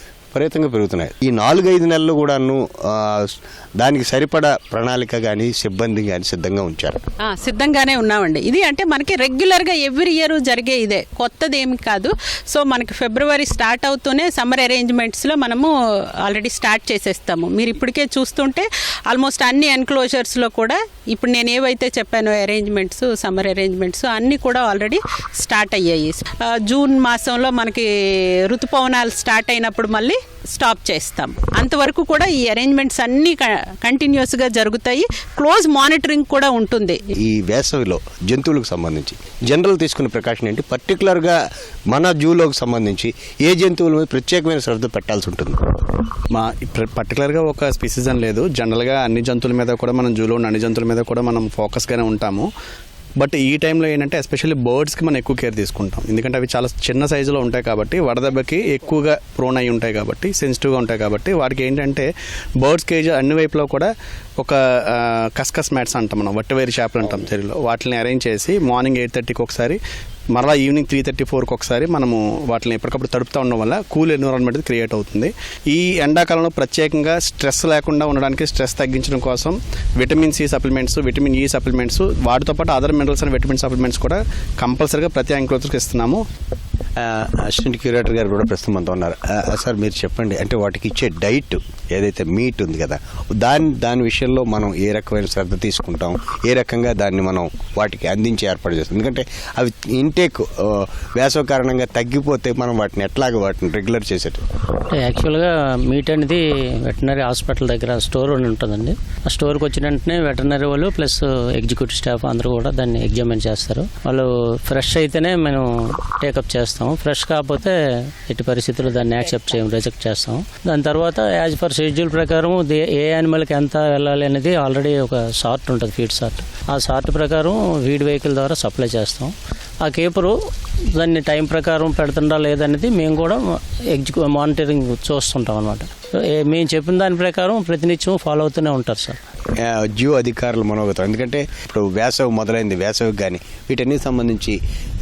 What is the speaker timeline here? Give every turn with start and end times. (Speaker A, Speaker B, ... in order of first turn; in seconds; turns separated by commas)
Speaker A: 0.3-7.0, Speaker B: 7.2-37.0, Speaker A: 37.2-41.4, Speaker A: 41.9-45.6, Speaker C: 46.3-52.5, Speaker C: 53.2-62.1, Speaker C: 62.6-69.8, Speaker C: 70.3-86.2, Speaker A: 87.0-104.4, Speaker D: 104.9-130.3, Speaker D: 130.9-139.2, Speaker A: 139.6-144.6